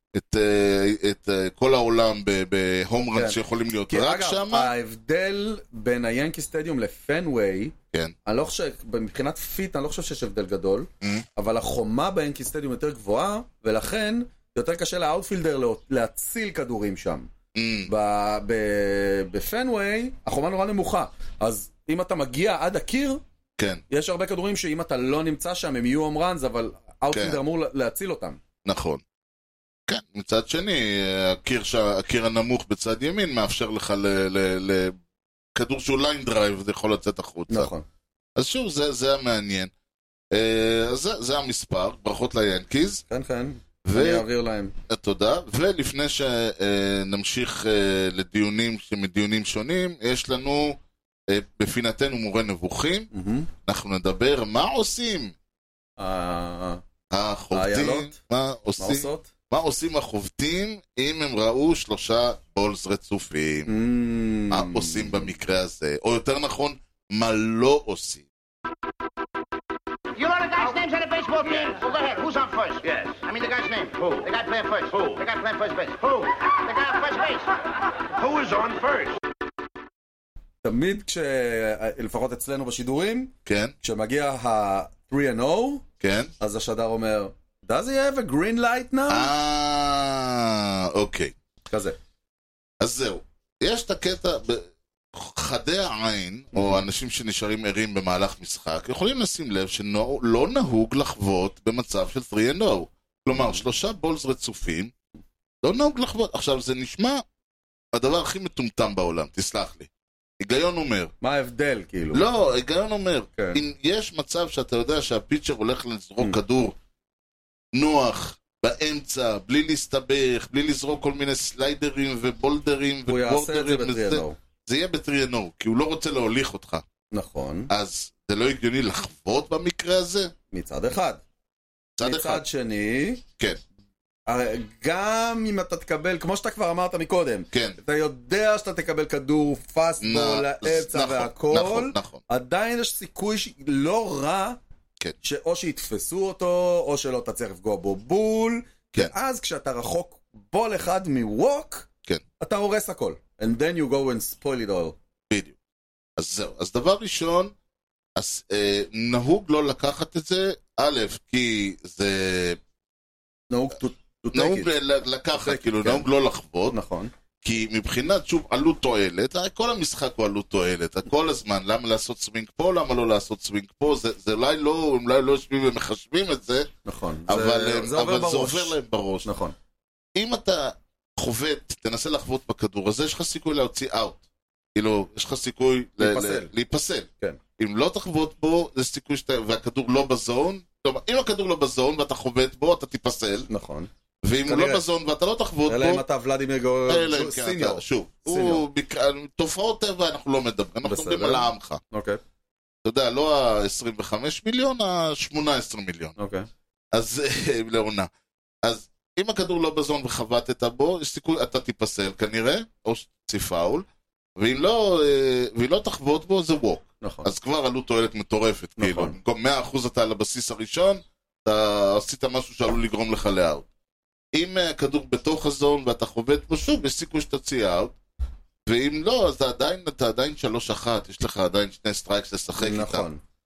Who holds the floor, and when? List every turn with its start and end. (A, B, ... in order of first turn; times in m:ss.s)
0:00.1-0:04.7 A
0:03.2-0:17.3 B
0:17.6-0:17.9 A
0:17.9-0:23.2 B
0:23.9-0:28.4 B
0:27.1-0:27.4 A
0:28.6-0:29.0 A
0:29.9-0:35.0 A
0:35.6-0:37.7 A
0:37.5-0:37.8 B
0:38.4-0:39.7 A
0:40.3-0:43.0 A
0:43.1-0:44.7 B
0:43.8-0:44.3 A
0:44.9-0:50.8 A
0:51.3-0:53.1 A
0:53.1-0:53.5 B
0:53.6-0:55.4 A
0:56.0-0:56.8 B
0:57.1-1:03.7 A
0:57.5-0:58.2 B
0:58.8-0:59.3 B
1:03.7-1:05.3 B
1:04.5-1:08.2 A
1:10.2-1:19.2 C
1:20.6-1:25.8 B
1:23.4-1:23.7 A
1:26.0-1:26.3 A
1:26.4-1:29.3 B
1:29.1-1:31.3 A
1:31.7-1:32.0 B
1:32.8-1:44.9 A
1:36.5-1:36.8 B
1:43.3-1:43.6 B
1:45.6-1:47.2 A
1:47.9-1:49.9 A
1:50.4-1:51.1 A
1:51.2-1:52.3 B
1:52.1-1:56.8 A
1:53.4-1:53.6 B
1:57.7-2:06.8 A
2:03.1-2:04.4 B
2:07.1-2:07.7 B
2:07.7-2:10.3 A
2:10.5-2:11.2 B
2:12.0-2:12.4 A
2:12.0-2:13.2 B
2:14.3-2:24.6 B
2:17.5-2:17.8 A
2:20.0-2:22.2 A
2:25.2-2:31.9 B
2:32.4-2:35.0 B
2:36.2-2:37.5 A
2:38.2-2:42.6 A
2:43.5-2:44.7 B
2:44.3-2:46.8 A
2:45.4-2:46.1 B
2:46.7-2:47.1 B
2:47.4-2:56.7 A
2:56.8-2:59.6 B
2:57.3-2:59.3 A
3:00.2-3:04.2 A
3:04.8-3:13.5 A
3:06.0-3:06.5 B
3:13.5-3:13.9 B
3:14.2-3:16.0 A
3:14.5-3:14.8 B
3:15.7-3:18.6 B
3:16.9-3:21.8 A
3:20.8-3:22.2 B
3:22.8-3:26.2 A
3:26.2-3:26.5 B
3:26.9-3:28.1 A
3:28.6-3:33.8 A
3:34.4-3:43.7 A
3:37.0-3:37.3 B
3:38.8-3:39.2 B
3:44.3-3:48.0 A
3:48.7-3:53.1 A
3:52.6-3:53.2 B